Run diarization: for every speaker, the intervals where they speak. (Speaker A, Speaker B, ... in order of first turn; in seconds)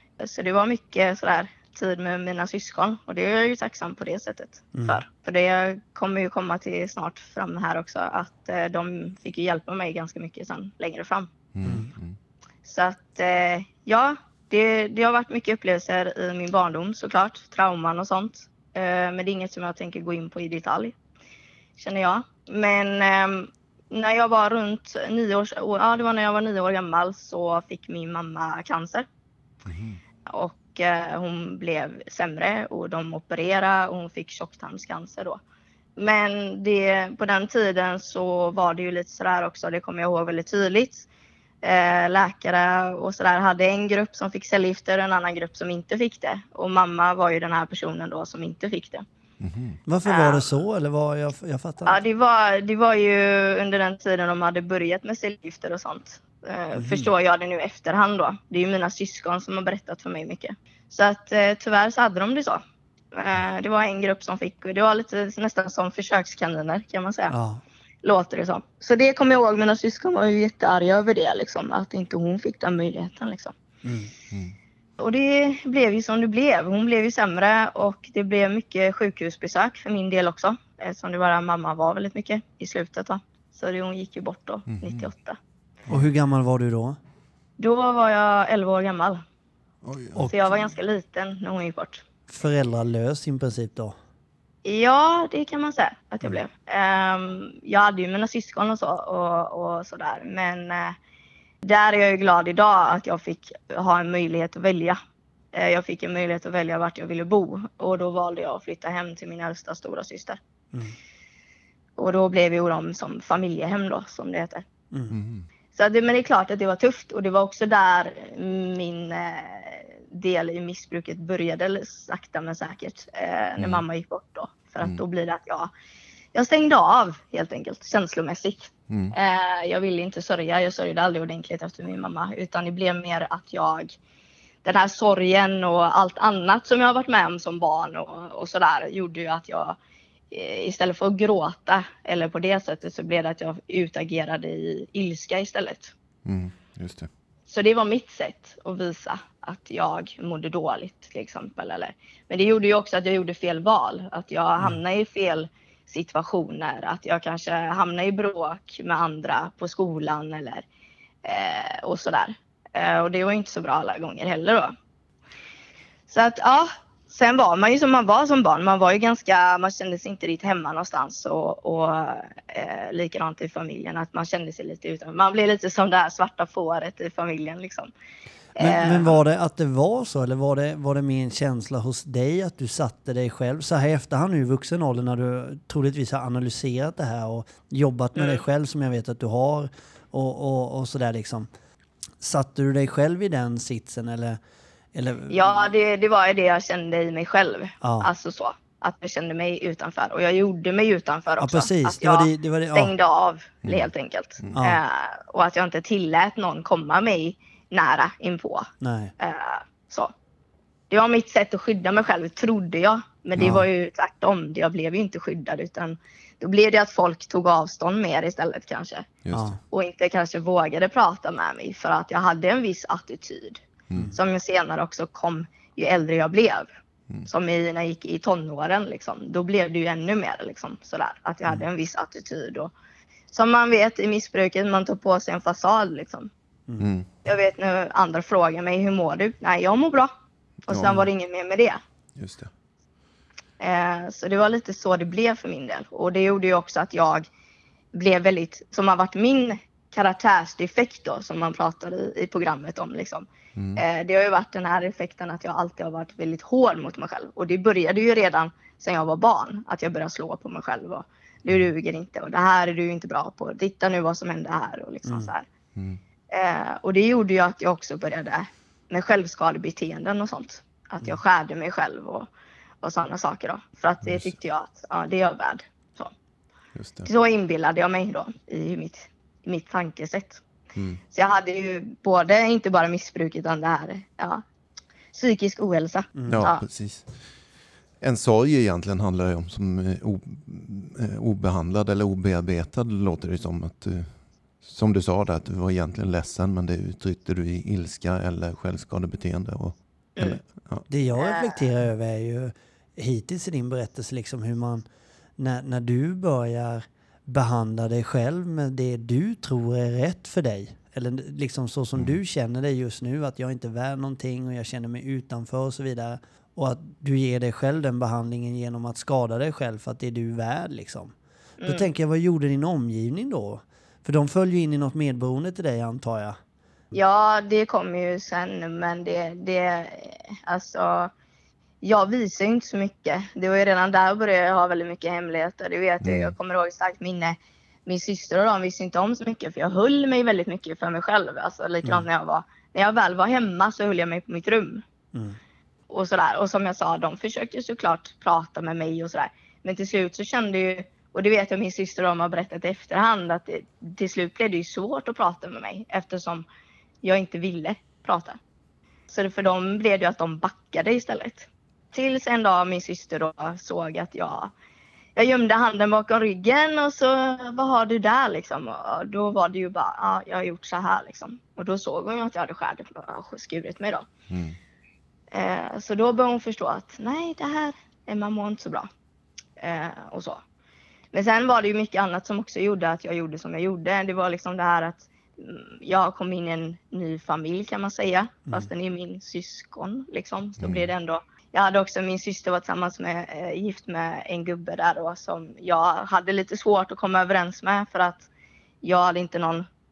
Speaker A: 0.2-11.3, 12.7-20.9, 21.8-29.1, 30.3-35.4, 36.0-41.1, 41.6-49.0, 50.0-50.5, 51.9-62.6, 63.1-67.3, 68.0-73.5, 75.0-85.4, 87.6-89.2, 90.3-92.0, 94.7-101.0, 101.6-105.0, 105.5-110.4, 112.0-114.7, 115.7-125.7, 126.3-134.0, 134.6-139.8, 140.3-145.9, 147.5-160.7, 161.2-164.7, 166.1-177.9, 178.6-179.2, 188.2-188.4, 195.3-208.7, 209.2-210.1, 210.9-219.1, 219.7-226.7, 227.3-232.7, 233.3-236.3, 237.2-240.1, 240.7-241.8, 243.6-247.3, 247.9-265.5, 266.3-272.3, 272.8-276.1, 277.1-280.4, 281.1-284.4, 285.1-286.6, 300.2-300.4, 301.1-301.7, 321.6-321.9, 326.9-331.1, 331.8-344.8, 345.9-356.5, 357.0-358.4, 359.1-364.5, 365.1-374.1, 375.3-378.9, 379.6-380.4, 381.1-398.3, 398.8-399.7
Speaker B: 4.7-5.0, 11.6-11.9, 49.9-52.0, 56.8-57.1, 67.3-67.6, 73.8-74.1, 85.9-87.0, 90.2-90.5, 92.3-94.0, 114.9-115.2, 178.6-191.5, 192.2-194.4, 194.9-195.5, 197.8-198.1, 201.4-202.9, 204.5-204.8, 208.8-209.1, 219.3-219.6, 265.1-265.3, 286.2-286.5, 300.9-304.8, 305.4-326.4
Speaker C: 11.6-12.2, 29.6-30.0, 49.4-49.8, 84.7-85.1, 89.8-90.3, 115.1-115.5, 123.6-123.8, 128.9-129.2, 146.2-147.1, 213.4-213.6, 219.2-219.6, 236.8-237.1, 240.7-241.1, 242.2-242.5, 253.6-253.8, 265.8-266.0, 274.0-274.3, 276.8-277.1, 280.8-281.0, 286.3-287.1, 288.0-300.9, 336.0-336.3, 374.3-374.6, 390.6-390.9